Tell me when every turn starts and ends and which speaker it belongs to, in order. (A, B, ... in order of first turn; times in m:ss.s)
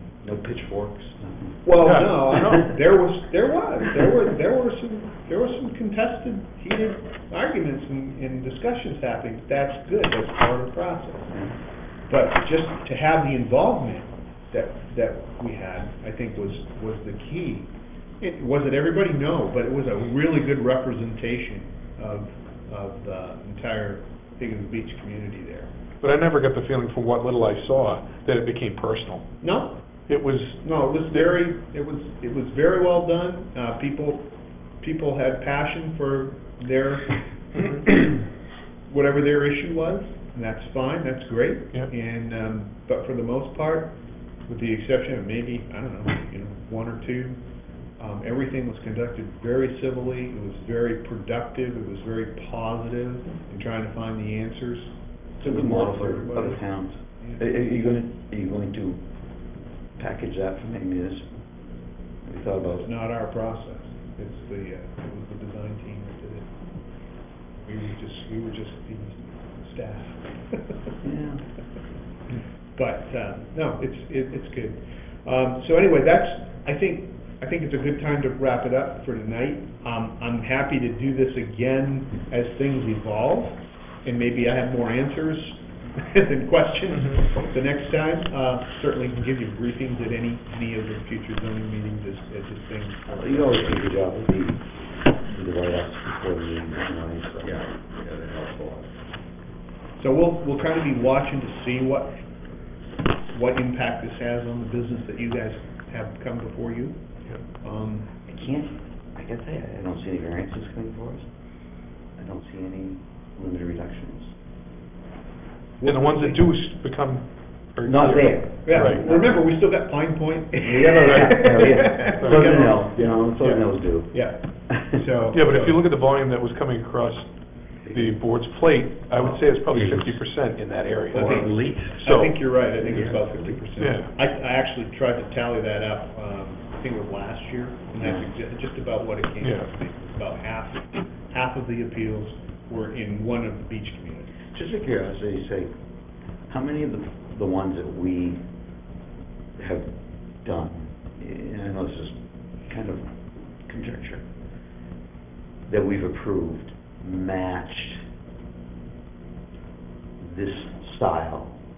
0:00.2-0:01.7 A
0:01.6-0:11.3 B
0:01.8-0:02.6 C
0:11.3-0:11.6 A
0:12.1-0:25.7 B
0:26.0-0:29.3 C
0:29.4-0:29.8 B
0:30.1-0:31.3 C
0:30.6-0:38.1 B
0:37.5-0:37.9 C
0:38.9-0:47.4 B
0:48.0-0:56.6 B
0:55.4-0:59.0 A
1:00.0-1:01.3 A
1:02.2-1:02.9 A
1:02.6-1:06.5 B
1:07.6-1:10.9 B
1:11.0-1:11.4 A
1:12.7-1:33.9 B
1:26.9-1:27.2 C
1:33.1-1:34.6 A
1:35.2-1:37.6 A
1:37.4-1:38.9 D
1:40.0-1:42.2 B
1:43.3-1:47.0 B
1:47.6-1:48.1 B
1:48.2-1:51.3 A
1:52.2-1:54.3 A
1:55.8-1:56.3 B
1:55.8-1:59.2 C
1:57.8-1:59.3 A
1:58.6-2:05.8 B
2:00.6-2:05.0 A
2:01.0-2:03.1 C
2:05.3-2:12.4 C
2:09.7-2:10.2 D
2:11.1-2:24.4 B
2:11.3-2:11.8 A
2:11.3-2:11.8 D
2:13.8-2:14.1 C
2:18.0-2:18.3 A
2:19.4-2:19.7 C
2:24.4-2:25.7 A
2:26.5-2:28.4 A
2:29.6-2:29.9 A
2:30.4-2:34.2 A
2:35.7-2:38.0 A
2:40.2-2:41.6 A